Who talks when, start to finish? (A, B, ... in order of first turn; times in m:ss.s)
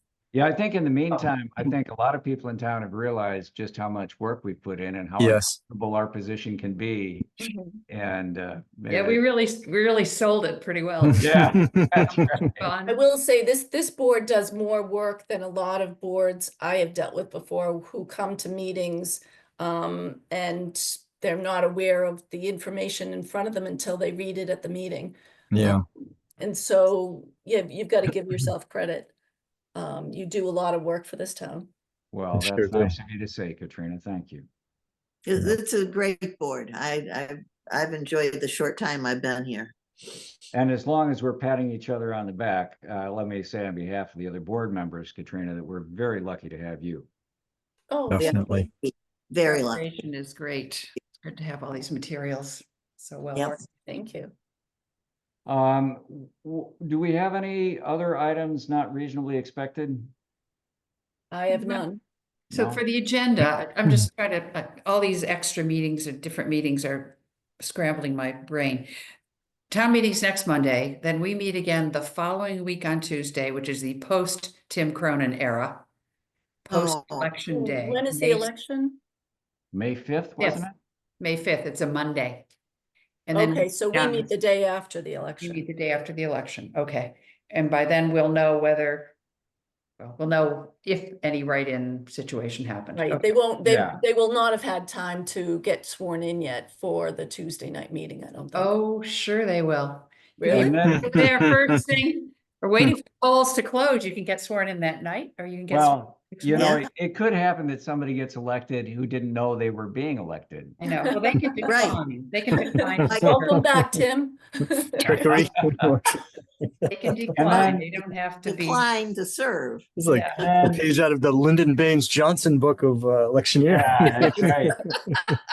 0:00.3-0:09.2 A
0:05.2-0:05.6 B
0:07.4-0:07.8 C
0:08.9-0:11.4 D
0:11.2-0:12.6 A
0:11.2-0:12.4 B
0:12.0-0:13.0 D
0:12.9-0:25.8 C
0:25.5-0:25.8 B
0:26.4-0:29.1 C
0:29.7-0:31.7 C
0:32.1-0:34.5 A
0:32.3-0:32.9 B
0:35.2-0:39.7 E
0:40.5-0:47.1 A
0:47.9-0:48.4 C
0:48.1-0:48.7 B
0:48.2-0:49.8 E
0:49.4-0:53.7 D
0:53.8-0:54.3 C
0:55.4-1:00.1 A
1:01.3-1:02.0 C
1:01.5-1:01.8 D
1:02.5-1:08.9 D
1:02.5-1:02.8 A
1:09.7-1:15.9 D
1:16.7-1:18.4 D
1:16.7-1:17.3 E
1:17.5-1:19.0 C
1:19.7-1:20.7 A
1:20.4-1:20.6 D
1:21.2-1:22.5 D
1:23.3-1:24.3 D
1:23.3-1:25.6 C
1:25.4-1:29.2 D
1:30.0-1:33.3 D
1:33.0-1:38.7 C
1:33.6-1:34.0 A
1:38.5-1:46.7 D
1:40.4-1:41.1 C
1:40.5-1:41.1 A
1:40.8-1:41.8 B
1:45.7-1:51.1 A
1:46.5-1:46.8 E
1:50.8-1:53.6 D
1:50.8-1:51.7 C
1:51.6-1:52.0 E
1:52.7-1:55.5 C
1:53.0-1:53.4 E
1:55.0-1:57.7 B
1:56.9-1:58.9 D
1:57.4-1:57.8 A
1:58.4-1:59.9 E
2:00.0-2:05.4 B
2:00.1-2:00.4 D
2:00.4-2:00.9 A
2:03.6-2:04.8 A